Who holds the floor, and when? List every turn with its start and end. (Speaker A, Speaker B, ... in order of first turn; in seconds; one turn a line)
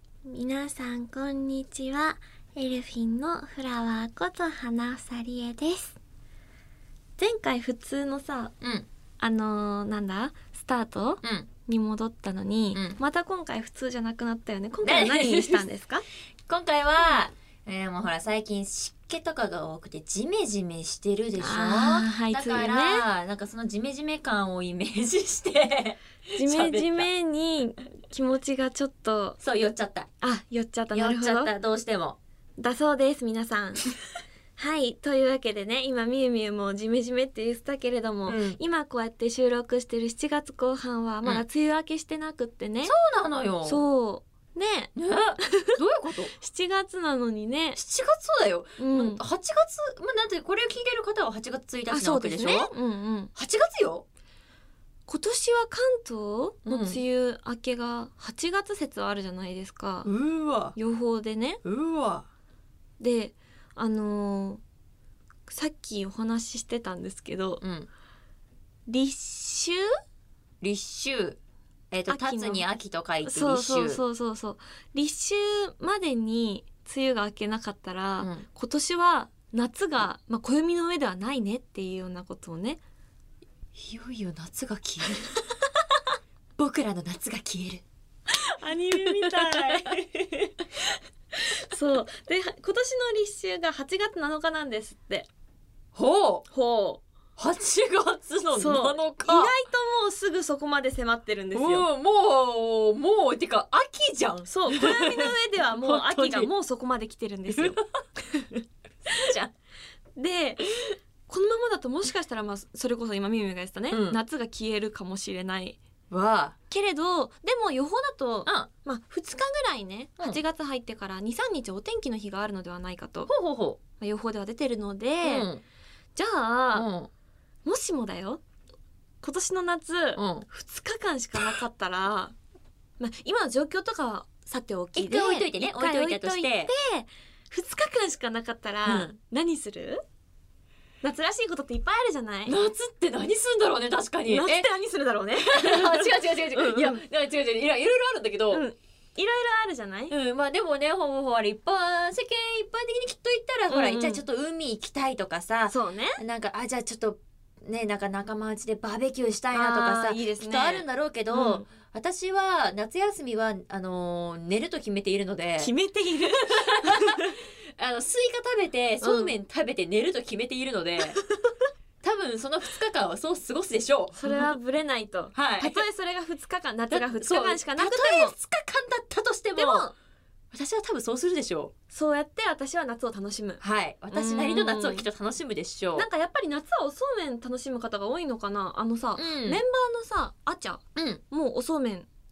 Speaker A: 0.2-6.0
Speaker A: 7.2-8.5
Speaker B: 8.6-8.9
Speaker A: 9.2-16.0
Speaker B: 11.2-11.5
Speaker B: 12.7-13.0
Speaker B: 14.8-15.7
Speaker B: 16.5-27.1
Speaker A: 21.4-23.1
Speaker A: 26.4-29.4
Speaker B: 29.4-30.1
Speaker A: 30.2-31.5
Speaker B: 30.9-32.2
Speaker A: 32.6-33.9
Speaker A: 34.5-42.9
Speaker B: 38.3-38.6
Speaker B: 42.8-43.8
Speaker A: 43.6-45.8
Speaker B: 44.9-46.3
Speaker A: 46.4-47.8
Speaker B: 47.8-52.7
Speaker A: 48.8-49.2
Speaker A: 51.9-53.3
Speaker B: 53.3-54.0
Speaker A: 55.1-60.1
Speaker B: 56.6-57.0
Speaker B: 60.0-60.8
Speaker A: 60.7-61.6
Speaker B: 61.6-62.3
Speaker A: 63.0-64.6
Speaker A: 65.5-67.6
Speaker B: 67.6-67.9
Speaker A: 68.9-69.8
Speaker B: 70.6-71.4
Speaker B: 71.9-74.0
Speaker A: 72.1-72.6
Speaker A: 73.2-82.8
Speaker B: 78.2-78.5
Speaker B: 83.7-85.3
Speaker B: 86.6-87.8
Speaker A: 88.3-90.7
Speaker B: 88.9-89.8
Speaker A: 91.3-95.3
Speaker B: 95.9-96.5
Speaker A: 96.5-97.0
Speaker B: 97.4-99.5
Speaker A: 98.5-101.8
Speaker B: 101.5-106.5
Speaker A: 104.5-107.8
Speaker B: 107.5-108.0
Speaker B: 109.0-109.5
Speaker A: 110.2-115.8
Speaker B: 113.9-114.2
Speaker B: 116.1-116.5
Speaker A: 116.7-123.3
Speaker B: 123.3-123.8
Speaker A: 124.0-125.5
Speaker B: 125.2-125.6
Speaker A: 126.2-126.9
Speaker B: 126.7-127.1
Speaker A: 127.6-128.4
Speaker A: 129.2-132.3
Speaker B: 130.1-130.5
Speaker A: 133.0-140.0
Speaker B: 134.9-136.7
Speaker B: 138.8-139.1
Speaker A: 141.0-142.6
Speaker B: 142.4-144.7
Speaker A: 144.3-147.0
Speaker B: 145.4-148.6
Speaker A: 148.5-150.1
Speaker B: 150.1-165.7
Speaker A: 153.7-154.2
Speaker A: 155.7-156.2
Speaker A: 159.5-161.7
Speaker A: 165.6-167.3
Speaker B: 166.2-171.2
Speaker A: 169.0-169.3
Speaker A: 171.3-171.5
Speaker B: 172.0-174.5
Speaker A: 174.2-178.3
Speaker B: 175.3-175.8
Speaker B: 176.9-179.9
Speaker A: 179.6-179.9
Speaker B: 180.5-181.7
Speaker A: 181.9-183.6
Speaker B: 183.6-186.1
Speaker A: 184.1-185.1
Speaker A: 185.9-192.1
Speaker B: 189.2-189.6
Speaker B: 190.9-191.2